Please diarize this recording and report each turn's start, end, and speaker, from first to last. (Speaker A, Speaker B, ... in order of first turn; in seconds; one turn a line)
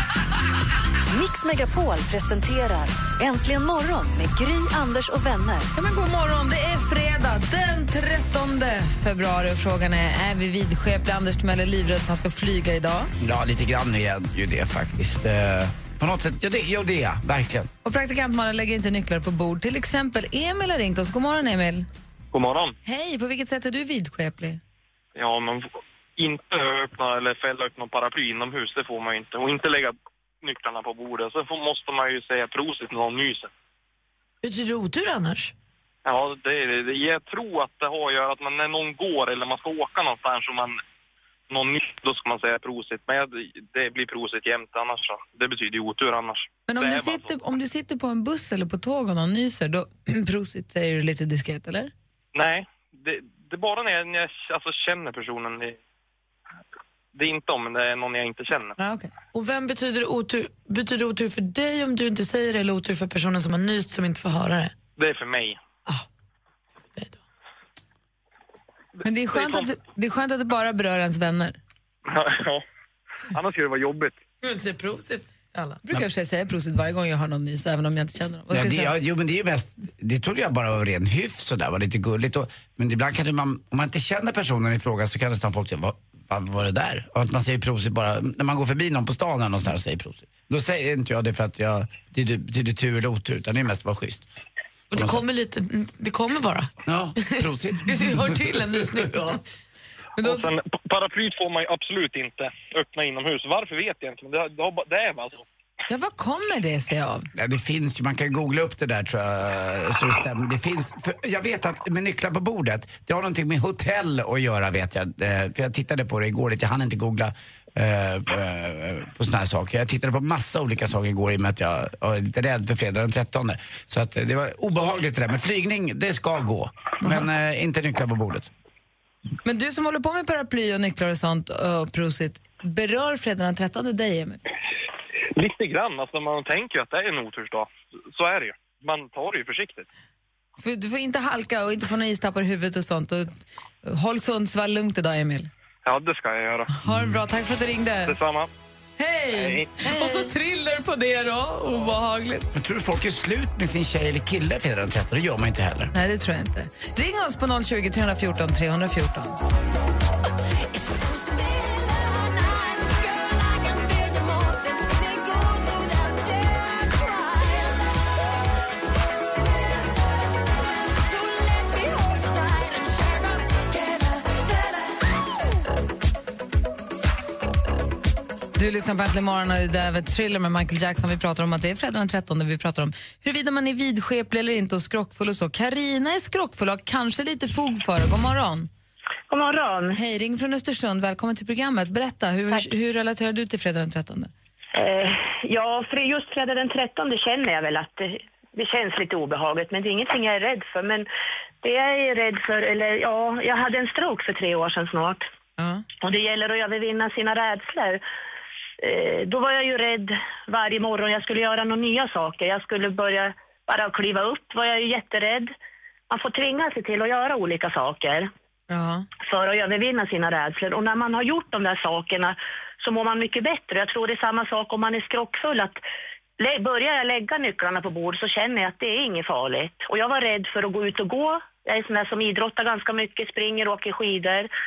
Speaker A: 1.1-5.7
Speaker B: 5.8-13.1
Speaker C: 13.2-17.7
Speaker B: 17.8-21.9
Speaker D: 22.3-22.8
Speaker B: 22.8-24.6
Speaker D: 25.1-33.5
Speaker E: 34.4-35.5
Speaker D: 36.0-40.8
Speaker D: 41.5-47.3
Speaker B: 46.7-51.9
Speaker D: 52.3-55.8
Speaker D: 57.1-58.8
Speaker B: 58.8-59.1
Speaker E: 59.3-64.8
Speaker D: 65.0-65.6
Speaker B: 69.0-71.6
Speaker D: 69.3-69.7
Speaker D: 72.1-72.6
Speaker D: 73.3-74.2
Speaker E: 74.4-75.8
Speaker B: 75.8-78.9
Speaker C: 78.5-94.2
Speaker E: 94.9-99.3
Speaker C: 94.9-95.2
Speaker C: 96.9-99.4
Speaker B: 100.2-100.5
Speaker D: 100.2-105.5
Speaker B: 105.9-107.3
Speaker C: 107.3-128.5
Speaker B: 129.4-134.4
Speaker D: 135.4-139.9
Speaker B: 140.6-145.5
Speaker D: 145.8-146.8
Speaker B: 146.8-148.2
Speaker C: 146.8-147.2
Speaker D: 148.1-148.5
Speaker B: 149.0-152.5
Speaker D: 149.3-149.8
Speaker E: 149.8-150.4
Speaker C: 152.5-155.9
Speaker B: 155.9-159.4
Speaker A: 164.0-166.1
Speaker A: 171.7-173.0
Speaker B: 178.6-188.7
Speaker F: 189.3-190.0
Speaker B: 189.9-194.3
Speaker F: 194.8-201.1
Speaker F: 201.6-205.3
Speaker B: 205.6-205.8
Speaker F: 206.0-208.0
Speaker F: 208.8-215.5
Speaker F: 216.1-218.3
Speaker B: 218.7-219.1
Speaker F: 219.2-225.8
Speaker F: 226.4-234.5